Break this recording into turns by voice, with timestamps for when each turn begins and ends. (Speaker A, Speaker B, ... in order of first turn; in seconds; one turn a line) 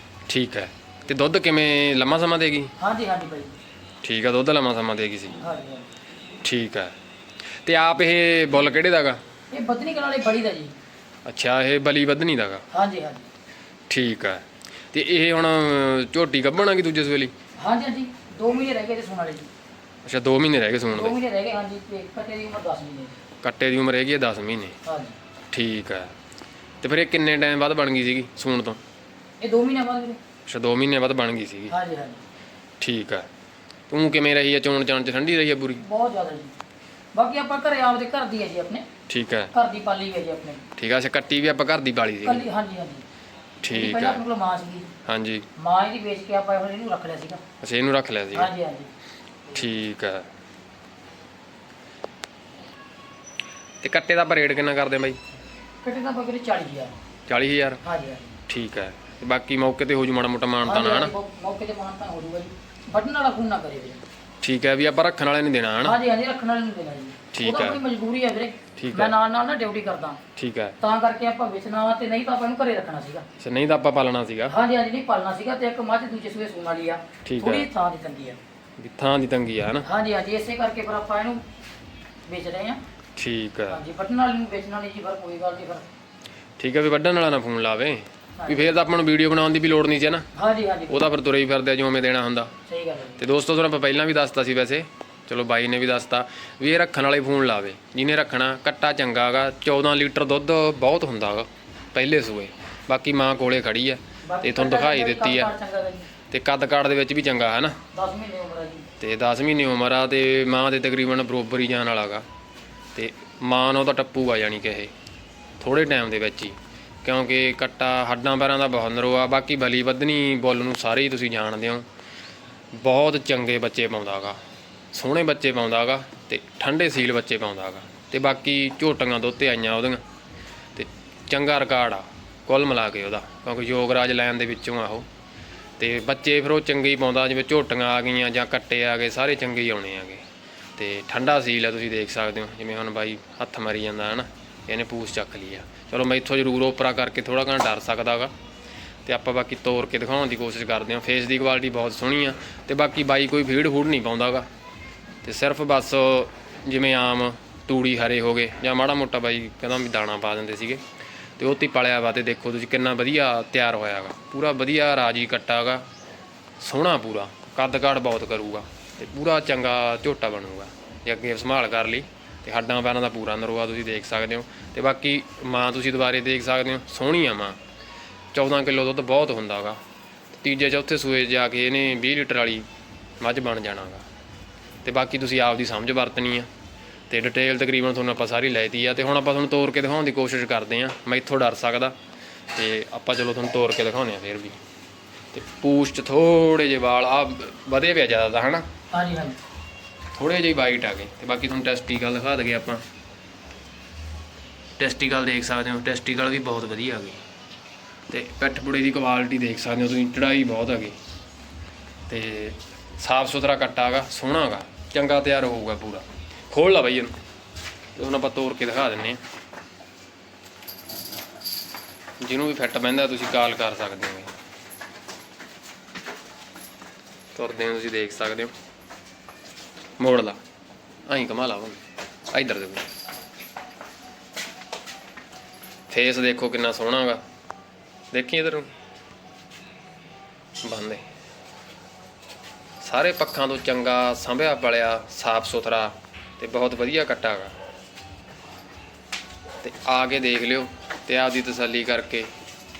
Speaker A: 0.3-2.7
Speaker B: 2.8-3.5
Speaker A: 4.0-5.4
Speaker B: 5.4-5.9
Speaker A: 6.4-6.9
Speaker A: 7.6-9.2
Speaker B: 9.5-10.7
Speaker A: 11.2-12.6
Speaker B: 12.7-13.3
Speaker A: 13.9-17.3
Speaker B: 17.6-19.5
Speaker A: 20.0-21.1
Speaker B: 20.9-23.1
Speaker A: 23.4-24.8
Speaker B: 24.8-25.1
Speaker A: 25.5-26.1
Speaker A: 26.8-28.8
Speaker B: 29.4-30.2
Speaker A: 30.5-31.8
Speaker B: 31.7-32.2
Speaker A: 32.8-33.3
Speaker A: 33.9-35.8
Speaker B: 35.8-36.5
Speaker B: 37.1-38.8
Speaker A: 39.1-39.5
Speaker B: 39.5-40.7
Speaker A: 40.8-42.5
Speaker B: 42.2-43.0
Speaker A: 43.6-44.2
Speaker B: 43.7-44.9
Speaker A: 45.0-45.5
Speaker B: 45.6-47.4
Speaker A: 47.6-48.5
Speaker B: 48.3-48.9
Speaker A: 49.5-50.3
Speaker A: 53.8-55.2
Speaker B: 55.8-57.0
Speaker A: 57.3-57.8
Speaker B: 57.8-58.3
Speaker A: 58.5-61.1
Speaker B: 60.6-64.0
Speaker A: 64.4-66.0
Speaker B: 65.8-70.2
Speaker A: 67.3-67.8
Speaker A: 68.8-69.1
Speaker A: 70.3-70.8
Speaker B: 70.8-73.2
Speaker A: 73.4-74.6
Speaker B: 74.5-78.4
Speaker A: 77.2-77.7
Speaker A: 78.8-79.9
Speaker B: 79.8-81.4
Speaker B: 82.2-82.8
Speaker A: 83.2-83.8
Speaker B: 83.7-85.8
Speaker A: 86.6-90.3
Speaker B: 88.4-88.8
Speaker B: 90.3-91.1
Speaker A: 90.9-92.5
Speaker B: 92.7-93.2
Speaker A: 93.2-105.5
Speaker B: 104.2-106.1
Speaker A: 106.3-107.8
Speaker B: 107.9-108.9
Speaker A: 109.0-112.2
Speaker A: 112.9-114.9
Speaker A: 115.6-121.8
Speaker A: 122.7-124.4
Speaker A: 124.9-130.0
Speaker A: 130.7-135.1
Speaker A: 135.8-140.2
Speaker A: 140.8-148.3
Speaker A: 149.1-154.5
Speaker A: 155.2-160.8
Speaker A: 161.4-165.8
Speaker A: 166.6-177.6
Speaker A: 178.3-179.8
Speaker A: 180.4-182.7
Speaker A: 183.2-184.0
Speaker A: 184.8-186.5
Speaker A: 187.1-191.9
Speaker A: 192.5-194.6
Speaker A: 195.3-198.7
Speaker B: 198.9-199.4
Speaker A: 200.1-202.8
Speaker A: 204.8-207.2
Speaker A: 208.1-211.0
Speaker A: 212.1-217.2
Speaker A: 217.9-219.2
Speaker A: 222.2-224.3
Speaker A: 227.3-228.5
Speaker A: 230.0-230.4
Speaker A: 231.1-231.8
Speaker A: 232.3-232.9
Speaker A: 235.9-237.2
Speaker A: 238.1-238.7
Speaker A: 240.6-241.0
Speaker A: 242.8-247.5
Speaker A: 249.6-252.3